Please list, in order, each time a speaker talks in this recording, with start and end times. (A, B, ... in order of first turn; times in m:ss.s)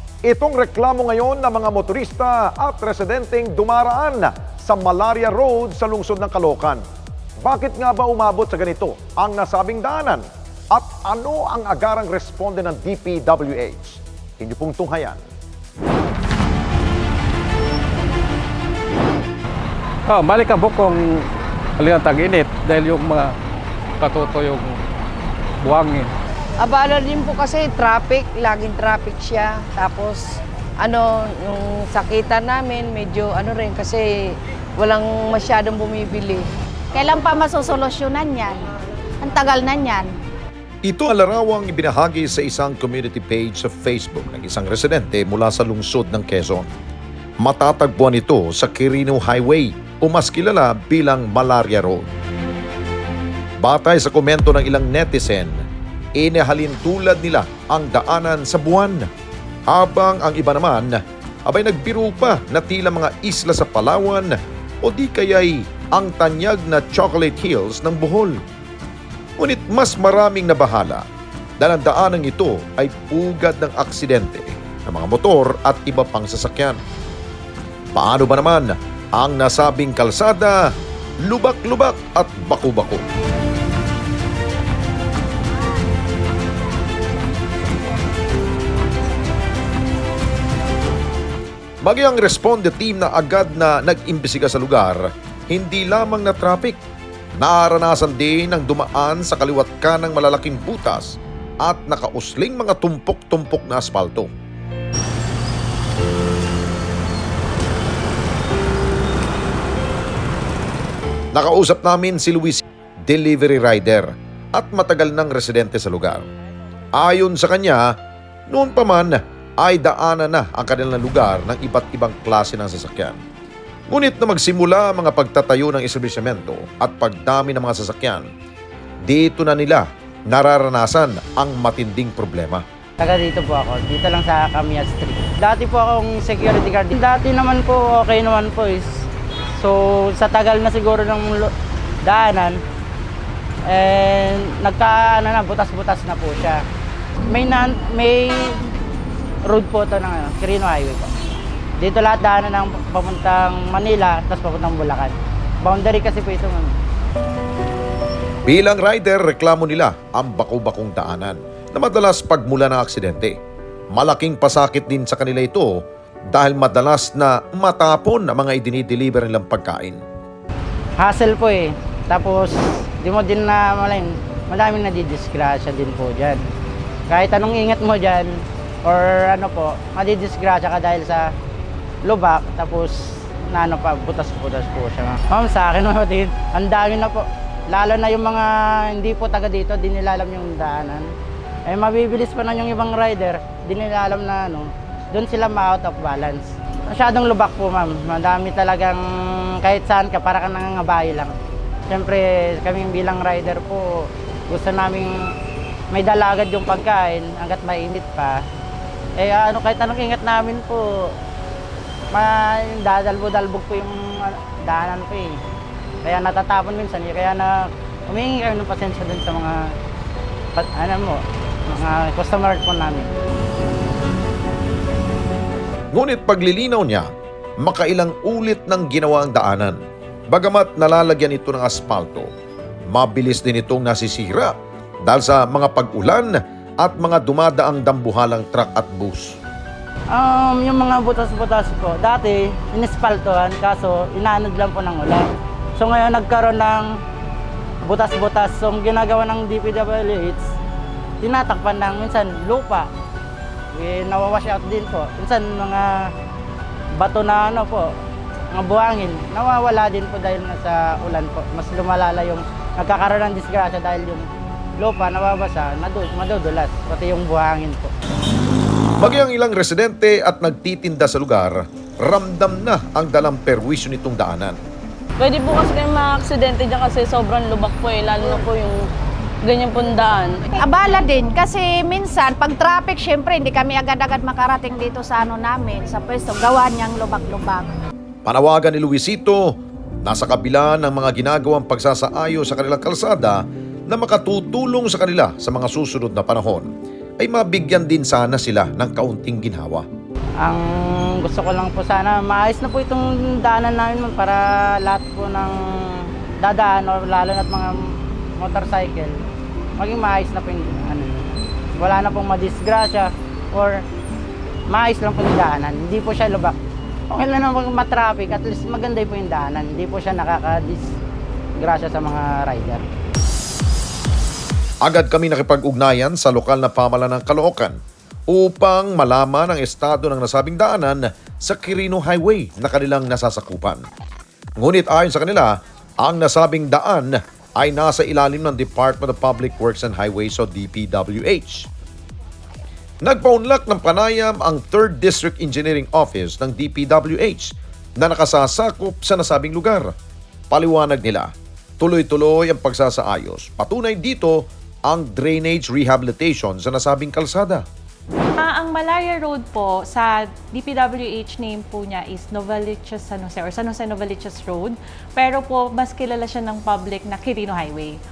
0:00.2-0:06.8 A
0:07.4-0:15.2 A
0:20.1-0:21.3 B
0:21.8-0:23.4 B
0:24.0-0:24.8 B
0:25.6-0:26.1 B
0:26.6-0:36.5 C
0:37.0-0:38.5 D
0:39.2-0:40.1 D
0:40.8-0:46.7 A
0:47.4-0:52.1 A
0:53.6-0:55.6 A
0:56.2-0:59.1 A
0:59.7-1:08.4 A
1:09.4-1:11.0 A
1:11.6-1:16.8 A
1:18.0-1:20.6 A
1:21.2-1:23.0 A
1:31.8-1:36.8 A
1:37.4-1:44.3 A
1:51.3-1:56.3 A
1:57.0-1:57.9 A
1:58.5-2:03.2 A
2:03.9-2:08.3 A
2:09.1-2:12.6 A
2:13.0-2:18.9 E
2:19.6-2:21.5 E
2:22.0-2:22.6 E
2:23.7-2:26.6 E
2:27.3-2:28.6 E
2:29.4-2:31.1 E
2:31.8-2:36.8 E
2:38.5-2:43.4 A
2:43.9-2:45.8 A
2:46.3-2:50.0 A
2:51.0-2:56.4 E
2:57.1-2:58.3 E
2:58.8-3:01.3 E
3:02.0-3:11.1 E
3:11.7-3:21.4 E
3:21.9-3:25.3 E
3:25.9-3:28.4 E
3:29.2-3:31.1 E
3:32.1-3:35.4 E
3:36.0-3:39.7 E
3:40.6-3:43.1 E
3:45.9-3:47.1 A
3:47.6-3:52.3 A
3:52.9-3:54.5 A
3:55.0-3:59.4 A
4:00.1-4:07.0 E
4:07.8-4:10.5 E
4:11.2-4:12.9 E
4:13.7-4:16.1 E
4:17.0-4:17.9 E
4:18.5-4:24.3 E
4:24.8-4:27.9 E
4:29.0-4:34.6 A
4:35.2-4:38.9 F
4:39.4-4:40.5 F
4:40.6-4:47.7 D
4:48.3-4:56.7 A
4:57.2-4:59.8 A
5:00.4-5:07.8 E
5:08.4-5:09.2 E
5:09.8-5:13.8 E
5:14.7-5:16.6 E
5:17.1-5:20.9 E
5:21.6-5:22.8 E
5:24.8-5:27.8 A
5:28.3-5:33.8 A
5:34.6-5:41.7 A
5:43.0-5:49.9 A
5:50.5-5:57.6 A
5:58.4-6:08.0 G